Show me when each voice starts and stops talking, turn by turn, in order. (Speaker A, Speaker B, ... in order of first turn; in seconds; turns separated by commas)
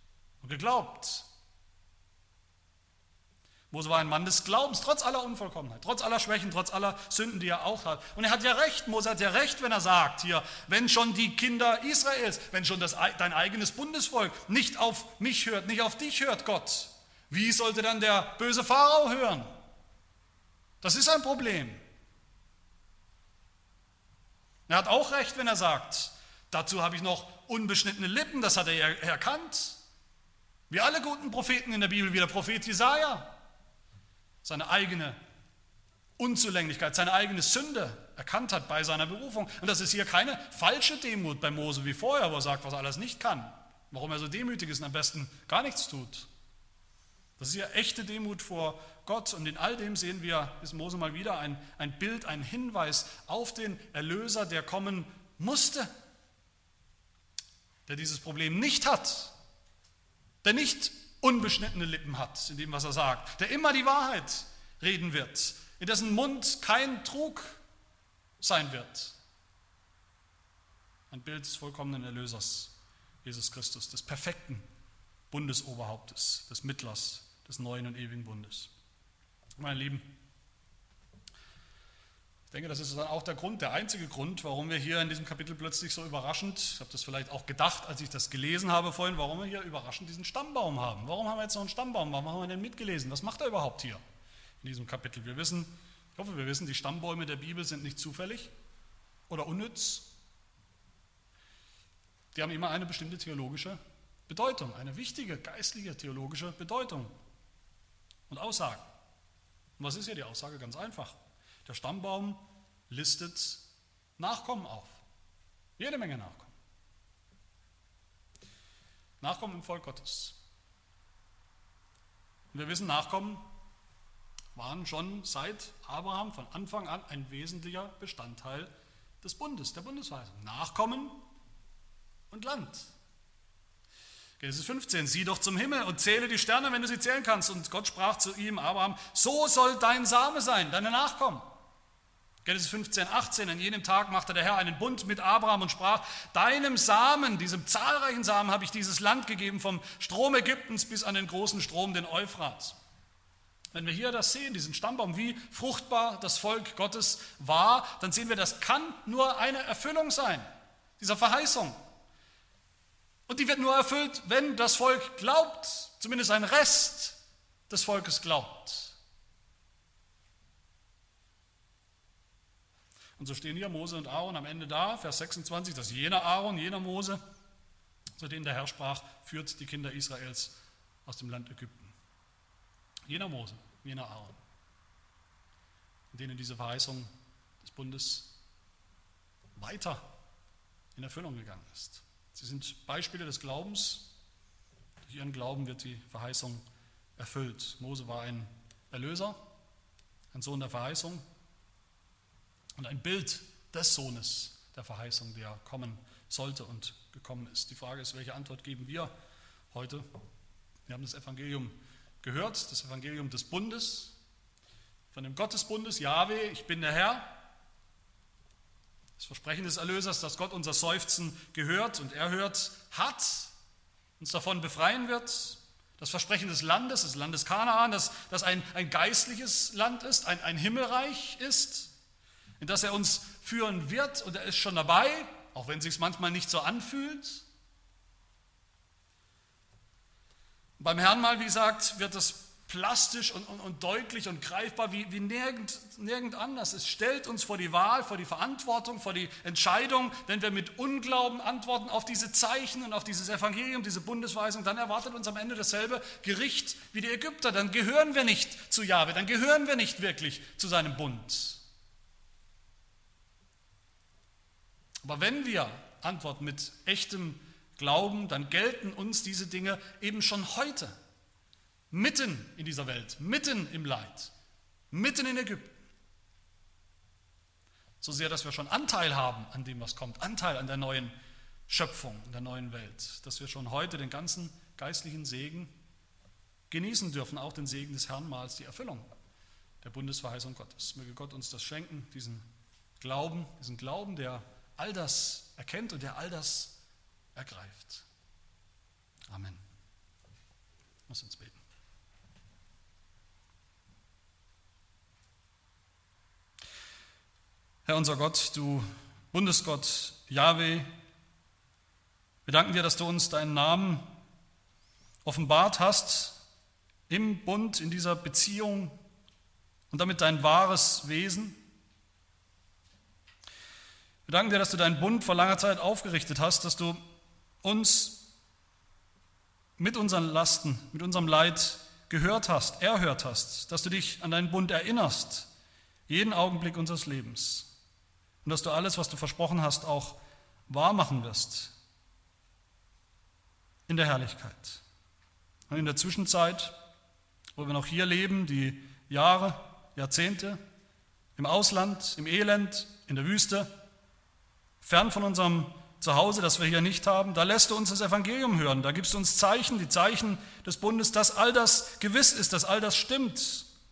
Speaker A: 0.4-1.3, Speaker A: 3.7-19.5, Speaker A: 20.8-21.8, Speaker A: 24.7-29.8, Speaker A: 30.7-33.4, Speaker A: 34.4-35.2, Speaker A: 36.2-46.3, Speaker A: 47.4-55.9, Speaker A: 57.9-59.3, Speaker A: 60.4-67.6, Speaker A: 68.4-69.2, Speaker A: 71.1-72.7, Speaker A: 73.2-74.7, Speaker A: 75.3-78.7, Speaker A: 79.6-80.1, Speaker A: 82.5-94.0, Speaker A: 94.6-98.5, Speaker A: 99.3-100.1, Speaker A: 102.3-107.1, Speaker A: 108.3-108.9, Speaker A: 109.8-113.6, Speaker A: 114.2-115.0, Speaker A: 115.8-116.5, Speaker A: 119.2-120.4, Speaker A: 122.5-123.5, Speaker A: 124.5-128.7, Speaker A: 129.2-131.2, Speaker A: 132.3-132.9, Speaker A: 134.4-141.5, Speaker A: 142.4-152.8, Speaker A: 153.7-160.5, Speaker A: 161.0-161.8, Speaker A: 163.3-167.2, Speaker A: 167.7-169.0, Speaker A: 173.2-177.2, Speaker A: 178.2-181.9, Speaker A: 183.1-184.4, Speaker A: 186.1-187.1, Speaker A: 187.6-188.3, Speaker A: 189.6-190.1, Speaker A: 190.9-194.1, Speaker A: 195.0-196.6, Speaker A: 197.2-199.4, Speaker A: 200.3-201.2, Speaker A: 202.8-209.1, Speaker A: 209.7-210.1, Speaker A: 210.9-214.2, Speaker A: 215.1-217.4, Speaker A: 219.2-223.5, Speaker A: 224.2-231.9, Speaker A: 232.6-237.4, Speaker A: 240.8-261.6, Speaker A: 265.0-270.9, Speaker A: 271.9-274.3, Speaker A: 274.9-275.8, Speaker A: 278.0-281.1, Speaker A: 281.7-285.7, Speaker A: 286.7-289.1, Speaker A: 289.8-292.4, Speaker A: 293.0-296.8, Speaker A: 297.4-298.1, Speaker A: 299.3-299.6, Speaker A: 301.1-301.6, Speaker A: 307.9-310.9, Speaker A: 312.5-314.1, Speaker A: 315.2-316.4, Speaker A: 317.1-319.0, Speaker A: 319.9-321.6, Speaker A: 324.3-327.0, Speaker A: 327.6-328.3, Speaker A: 329.8-335.5, Speaker A: 336.1-337.7, Speaker A: 338.4-341.7, Speaker A: 343.9-344.8, Speaker A: 345.7-346.8, Speaker A: 347.6-350.6, Speaker A: 351.4-353.7, Speaker A: 354.8-363.7